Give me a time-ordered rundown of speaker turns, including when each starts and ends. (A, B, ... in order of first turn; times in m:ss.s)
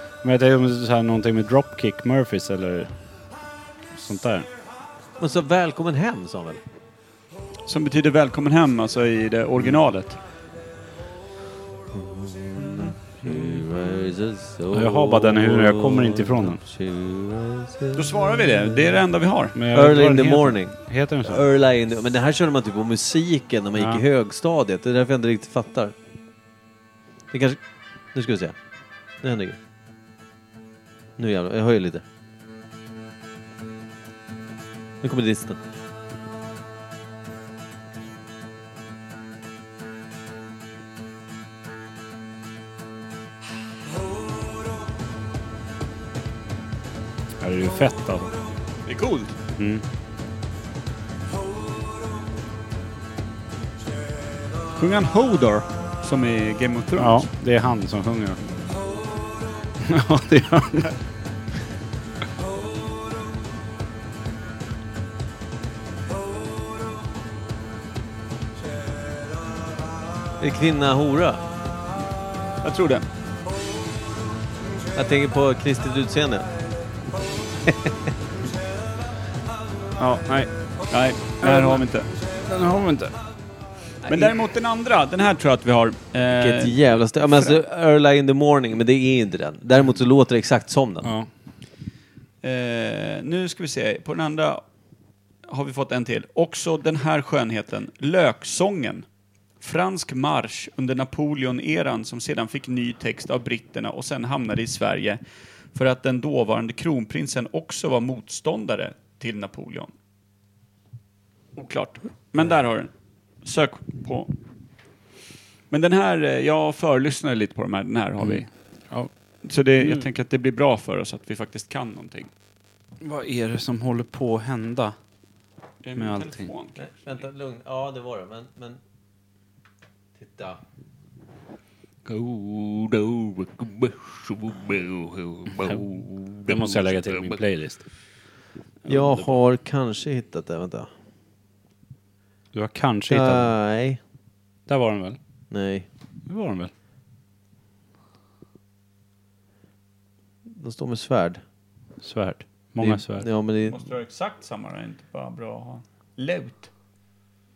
0:00.2-0:02.9 A
0:03.9-0:04.5 A
0:05.2-0:06.6 B
0:07.6-0:10.2 C
0:11.9-0:18.9 B
0:12.6-0:13.6 C
0:14.7-0:16.6 A
0:17.9-0:19.6 C
0:19.5-0:21.4 A
0:19.7-0:25.9 B
0:23.8-0:24.0 A
0:27.3-0:27.6 B
0:28.1-0:28.6 B
0:29.2-0:29.6 B
0:31.2-0:32.0 B
0:35.0-0:35.6 B
0:47.4-0:48.4 A
0:48.9-0:49.4 C
0:49.6-0:49.8 A
0:54.8-0:57.3 C
0:57.0-0:58.6 A
0:59.8-1:00.9 A
1:10.4-1:11.4 B
1:12.6-1:13.1 C
1:14.9-1:16.5 B
1:17.6-1:18.0 B
1:20.0-1:20.5 A
1:20.9-1:22.1 C
1:21.4-1:21.8 A
1:22.4-1:23.2 A
1:24.0-1:26.8 C
1:24.1-1:24.3 B
1:26.3-1:31.1 B
1:31.0-1:31.3 A
1:32.4-1:34.6 C
1:35.5-1:39.0 C
1:39.6-1:45.2 C
1:45.8-1:49.9 C
1:51.6-1:52.9 C
1:53.4-1:54.3 C
1:55.7-1:58.5 C
1:58.2-1:59.1 A
1:59.4-2:02.3 C
1:59.8-2:00.1 A
2:03.0-2:04.9 A
2:05.8-2:06.8 C
2:06.0-2:06.5 A
2:06.8-2:08.8 B
2:10.2-2:10.6 B
2:12.3-2:17.4 C
2:15.4-2:17.9 A
2:18.8-2:19.4 A
2:18.9-2:20.9 B
2:22.5-2:23.5 A
2:23.1-2:24.0 B
2:24.7-2:25.2 A
2:25.5-2:25.9 B
2:26.3-2:26.7 A
2:30.5-2:31.4 B
2:32.0-2:33.3 A
2:32.8-2:33.8 B
2:33.6-2:36.7 C